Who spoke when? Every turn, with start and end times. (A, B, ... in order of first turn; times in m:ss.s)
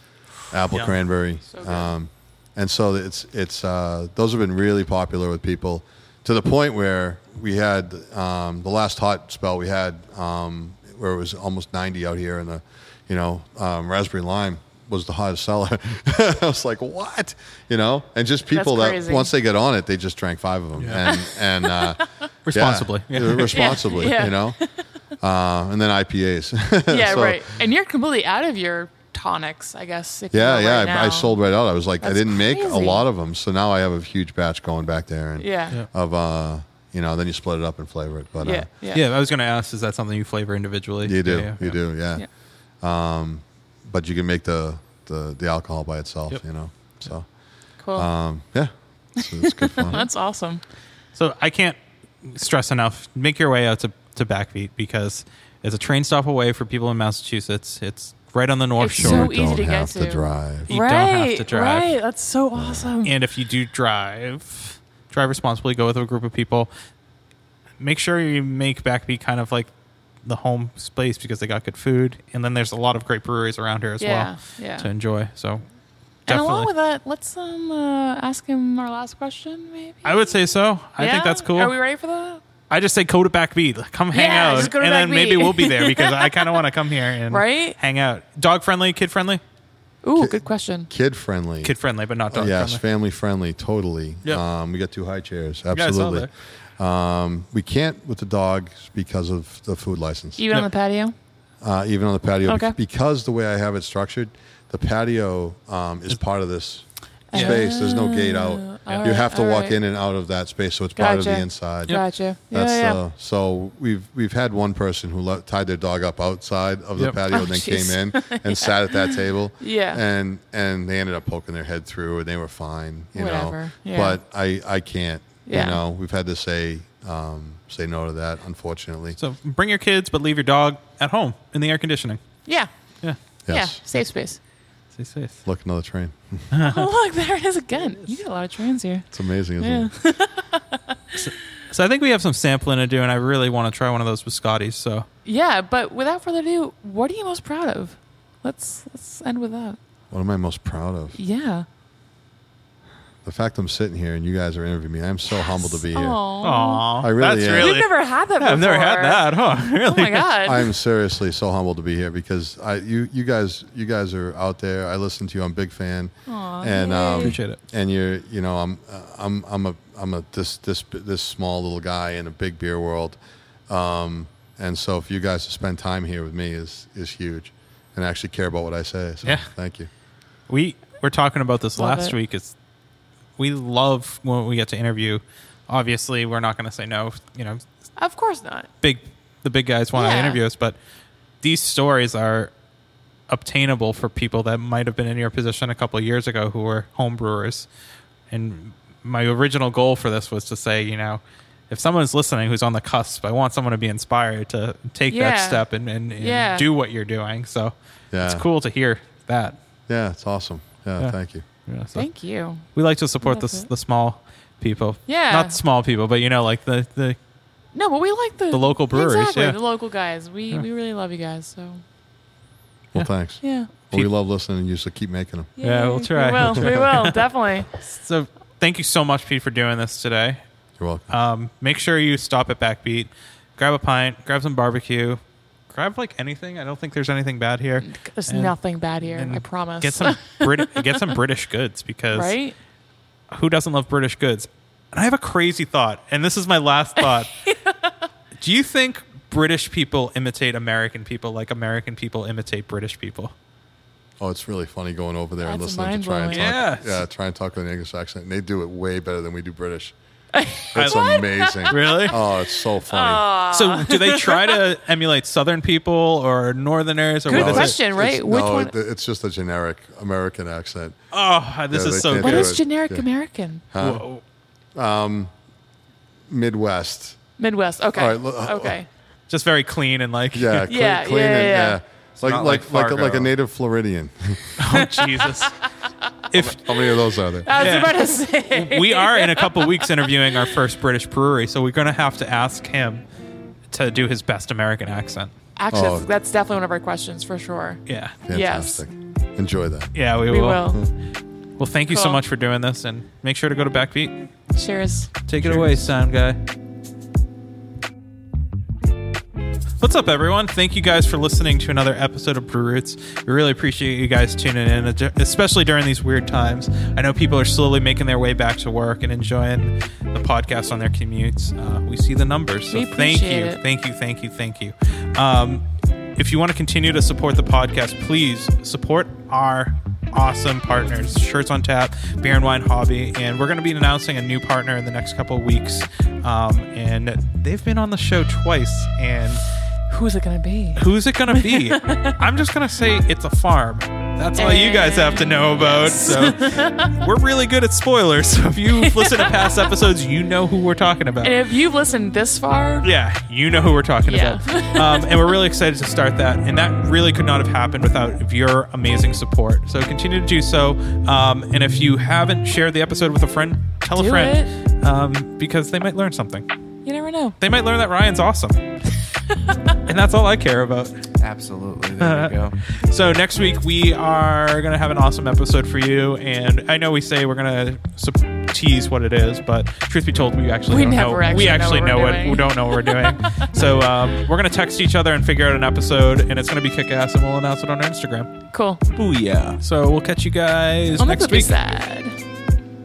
0:00.5-0:24.6 A
0:01.5-0:01.9 B
0:18.5-0:19.3 B
0:20.8-0:21.0 C
0:21.0-0:22.0 B
0:22.4-0:24.1 C
0:23.5-0:24.8 B
0:25.2-0:27.6 A
0:26.9-0:31.4 B
0:30.3-0:38.7 A
0:32.0-0:33.0 B
0:35.4-0:35.8 B
0:38.4-0:39.0 B
0:38.9-0:41.8 C
0:41.0-0:42.3 A
0:42.8-0:47.3 A
0:47.8-0:48.1 B
0:47.9-0:50.1 A
0:49.4-0:50.6 B
0:51.1-0:59.4 C
0:58.8-1:03.1 B
0:59.0-1:00.7 A
1:00.7-1:01.9 C
1:02.5-1:02.9 A
1:03.0-1:06.7 C
1:07.8-1:09.7 C
1:10.2-1:15.6 C
1:14.0-1:14.9 B
1:16.3-1:16.7 C
1:16.3-1:20.3 B
1:20.0-1:21.8 C
1:21.0-1:22.4 B
1:22.7-1:29.4 C
1:24.1-1:26.6 B
1:27.3-1:27.8 B
1:30.0-1:30.9 B
1:30.1-1:31.7 A
1:31.6-1:32.8 C
1:32.3-1:40.4 A
1:35.7-1:36.3 C
1:40.4-1:41.1 B
1:41.6-2:09.2 A
1:42.4-1:42.7 B
1:47.3-1:49.8 B
1:47.3-1:47.6 C
1:48.8-1:49.1 C
1:51.0-1:53.0 B
1:57.3-2:00.0 B
2:03.1-2:04.2 B
2:05.4-2:05.8 B
2:09.2-2:12.2 C
2:13.4-2:13.8 A
2:13.5-2:14.4 B
2:14.9-2:15.4 C
2:15.4-2:16.5 A
2:16.5-2:16.9 C
2:16.6-2:19.1 B
2:17.9-2:18.1 C
2:19.1-2:19.9 A
2:19.6-2:21.0 B
2:21.2-2:25.0 C
2:25.2-2:29.8 B
2:30.1-2:31.2 A
2:31.2-2:31.6 B
2:33.2-2:36.2 A
2:35.4-2:36.9 B
2:36.4-2:40.3 C
2:37.0-2:37.8 A
2:37.4-2:40.7 B
2:40.4-2:53.2 A
2:46.3-2:47.4 B
2:47.2-2:47.6 C
2:53.7-2:59.9 A
2:59.2-2:59.5 C
3:00.5-3:02.5 C
3:01.8-3:02.1 B
3:03.4-3:07.6 C
3:08.0-3:08.7 B
3:08.8-3:10.8 C
3:09.9-3:10.4 B
3:11.4-3:12.5 C
3:13.3-3:17.7 C
3:18.3-3:29.6 C
3:25.1-3:25.6 B
3:26.2-3:26.7 B
3:28.1-3:28.4 A
3:29.9-3:31.4 A
3:31.0-3:32.1 C
3:31.9-3:32.6 B
3:32.7-3:37.2 C
3:33.2-3:33.7 B
3:35.1-3:35.6 B
3:37.7-3:41.8 B
3:38.5-3:39.6 C
3:42.9-3:45.5 A
3:43.4-3:43.7 B
3:43.8-3:44.1 C
3:45.6-3:47.7 B
3:45.6-3:50.4 C
3:50.8-3:51.1 A
3:51.1-4:02.4 C
3:57.8-4:01.1 B
4:02.1-4:02.6 B
4:03.3-4:07.3 C
4:07.5-4:07.9 B
4:08.4-4:13.3 C
4:14.2-4:19.9 A
4:15.4-4:16.5 B
4:16.3-4:17.0 C
4:20.3-4:24.6 B
4:20.7-4:23.2 A
4:20.7-4:22.2 C
4:23.5-4:27.8 C
4:27.2-4:28.7 B
4:27.3-4:31.0 A
4:31.1-4:32.6 C
4:31.7-4:33.0 A
4:32.0-4:33.6 B
4:33.7-4:34.0 A
4:33.8-4:34.2 C
4:34.8-4:35.3 A
4:36.3-4:37.2 A
4:37.4-4:38.9 B
4:37.9-4:38.8 A
4:39.3-4:40.7 C
4:40.3-4:44.8 A
4:40.7-4:41.8 B
4:42.2-4:43.3 C
4:44.6-4:45.5 C
4:45.0-4:45.3 B
4:46.3-4:46.6 C
4:46.3-4:47.5 A
4:47.4-4:50.1 B
4:47.5-4:48.0 C
4:48.5-4:53.0 C
4:53.7-4:55.3 C
4:55.6-4:58.8 B
4:55.7-4:56.1 A
4:57.8-4:58.2 C
4:58.2-4:59.9 A
4:59.9-5:00.6 C
5:00.3-5:00.8 B
5:01.6-5:04.2 C
5:01.9-5:02.2 B
5:04.5-5:05.1 B
5:05.2-5:06.4 C
5:05.4-5:05.8 A
5:09.8-5:25.6 C
5:22.7-5:23.6 B
5:26.2-5:39.4 C
5:39.9-5:42.2 B
5:40.8-5:51.4 C
5:44.4-5:47.0 B
5:48.8-5:49.7 B
5:51.2-5:52.8 B
5:52.8-6:06.5 C
5:54.0-5:55.2 B
6:04.0-6:04.5 B
6:06.8-6:07.4 B
6:07.4-6:08.6 C
6:09.8-6:11.0 C
6:11.2-6:12.6 D
6:12.0-6:28.3 C
6:20.7-6:23.4 B
6:28.5-6:28.8 B
6:28.9-6:29.6 D
6:29.5-6:31.6 C
6:31.0-6:32.2 B